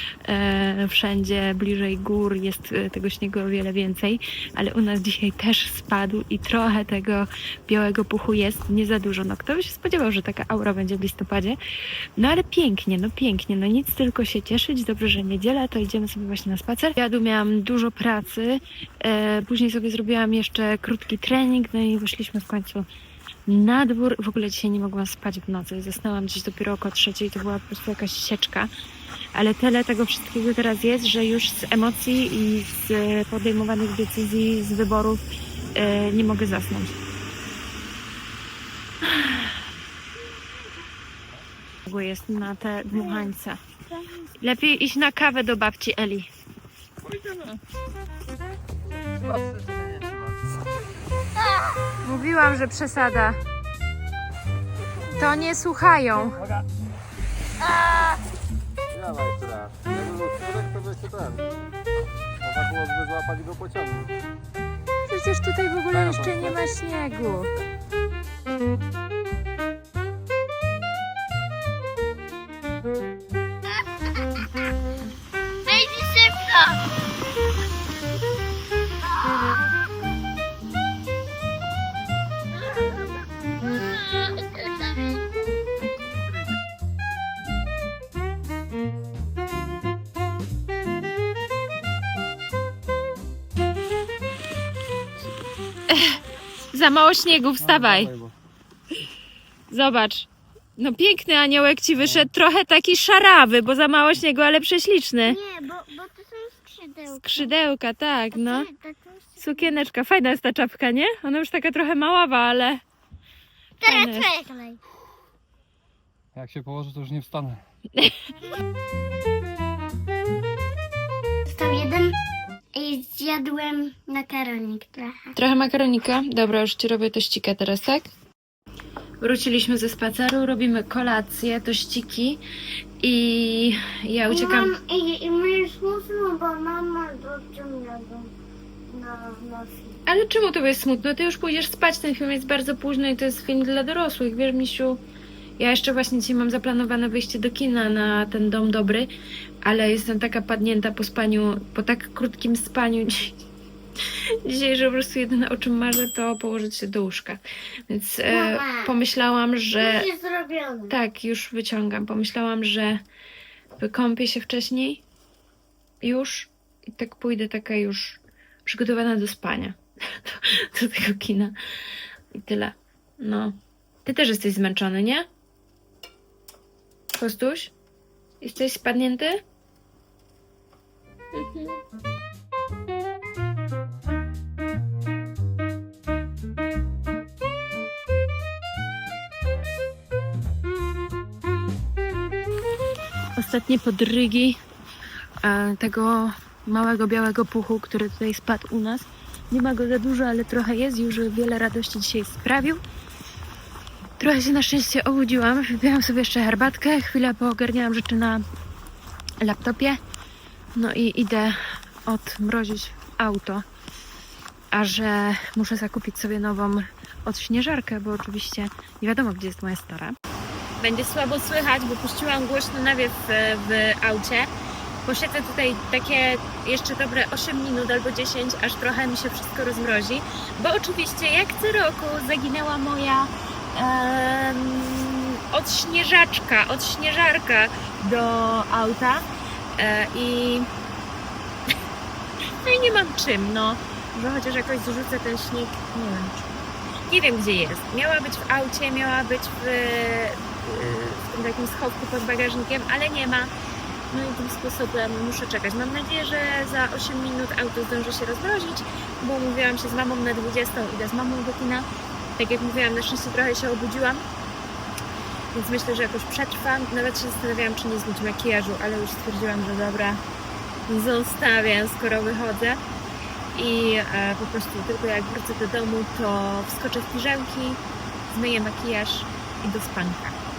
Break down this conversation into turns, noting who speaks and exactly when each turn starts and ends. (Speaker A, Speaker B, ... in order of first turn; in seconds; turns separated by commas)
Speaker A: 0.2-11.6, Speaker A: 12.2-22.9, Speaker A: 23.5-28.7, Speaker A: 29.3-35.2, Speaker A: 35.7-37.0, Speaker A: 39.0-39.5, Speaker A: 41.8-43.6, Speaker A: 44.4-46.3, Speaker B: 49.3-50.2, Speaker A: 52.0-53.4, Speaker A: 55.2-56.4, Speaker B: 58.9-61.5, Speaker B: 62.4-64.1, Speaker A: 65.0-67.5, Speaker B: 65.9-66.7, Speaker C: 75.7-76.8, Speaker C: 83.8-85.2, Speaker A: 95.9-96.2, Speaker A: 96.7-98.1, Speaker B: 97.6-98.3, Speaker A: 99.7-105.4, Speaker C: 105.2-107.6, Speaker A: 107.2-108.7, Speaker C: 108.3-109.7, Speaker A: 109.4-112.8, Speaker C: 113.8-114.8, Speaker A: 113.8-114.3, Speaker B: 116.3-117.6, Speaker C: 121.4-122.2, Speaker C: 122.7-125.3, Speaker A: 125.3-128.1, Speaker A: 129.2-132.4, Speaker A: 133.0-134.7, Speaker C: 134.3-138.3, Speaker C: 138.9-140.0, Speaker A: 140.1-145.0, Speaker A: 145.6-149.1, Speaker A: 149.6-153.4, Speaker A: 154.4-160.1, Speaker C: 158.2-158.9, Speaker C: 159.7-160.9, Speaker A: 160.9-163.0, Speaker A: 163.8-165.0, Speaker A: 166.0-171.5, Speaker A: 172.3-175.2, Speaker A: 177.2-177.7, Speaker A: 178.4-179.4, Speaker A: 181.3-181.8, Speaker A: 193.3-194.6, Speaker A: 195.4-202.8, Speaker A: 204.2-208.4, Speaker A: 209.4-210.0, Speaker A: 210.7-213.6, Speaker A: 214.7-220.2, Speaker A: 220.8-224.5, Speaker A: 225.0-239.2, Speaker A: 239.8-240.7, Speaker A: 242.6-246.6, Speaker A: 247.1-253.5, Speaker A: 254.1-261.9, Speaker A: 262.4-264.2, Speaker A: 265.5-270.2, Speaker A: 270.9-272.8, Speaker A: 273.5-280.4